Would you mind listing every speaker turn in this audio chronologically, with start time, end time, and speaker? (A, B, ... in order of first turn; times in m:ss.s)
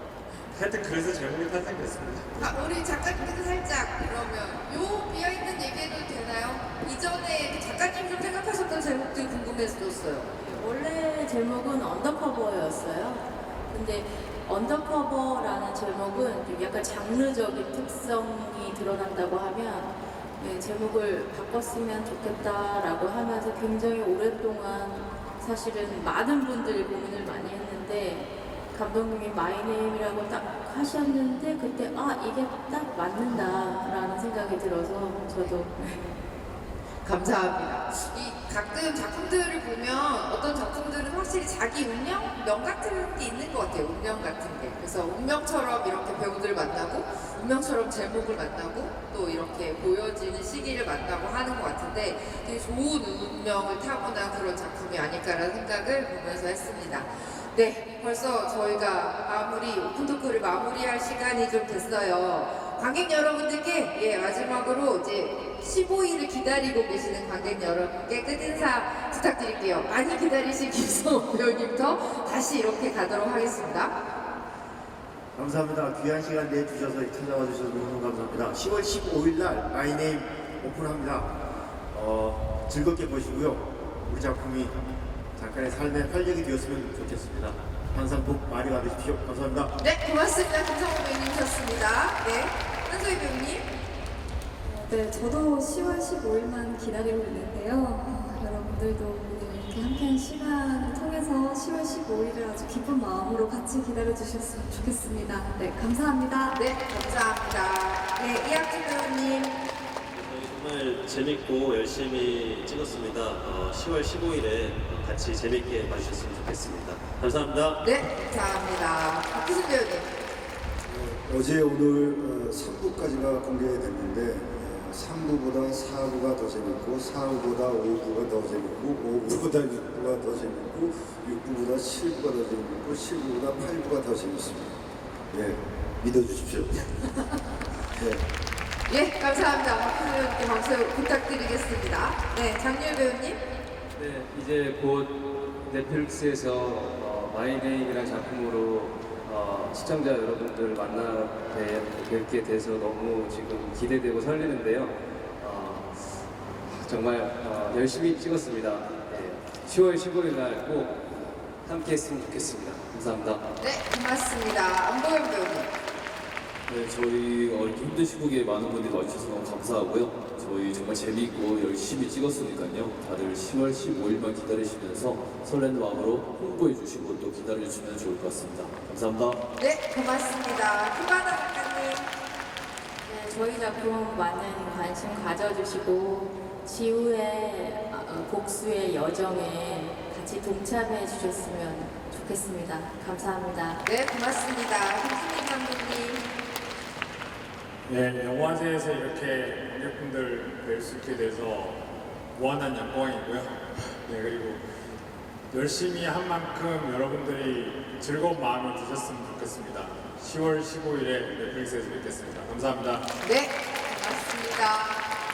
0:00.5-0:02.6 A
0:02.4-0:10.6 B
0:10.5-0:36.2 C
0:33.3-0:33.6 B
0:37.0-1:14.0 B
1:15.3-1:21.3 D
1:21.9-1:24.8 D
1:25.4-1:29.7 D
1:29.8-1:33.7 B
1:34.6-1:46.6 E
1:46.5-1:49.6 B
1:50.1-1:57.8 F
1:57.8-2:00.1 B
2:00.9-2:14.8 G
2:15.3-2:16.7 G
2:18.0-2:18.2 G
2:18.9-2:23.4 B
2:24.0-2:36.0 H
2:36.7-2:41.0 H
2:41.6-2:43.4 H
2:43.6-2:45.7 B
2:46.7-2:59.4 I
2:59.6-3:02.1 B
3:03.1-3:13.8 C
3:13.8-3:16.3 B
3:17.9-3:21.8 A
3:22.4-3:24.6 A
3:25.5-3:33.1 A
3:33.2-3:35.1 B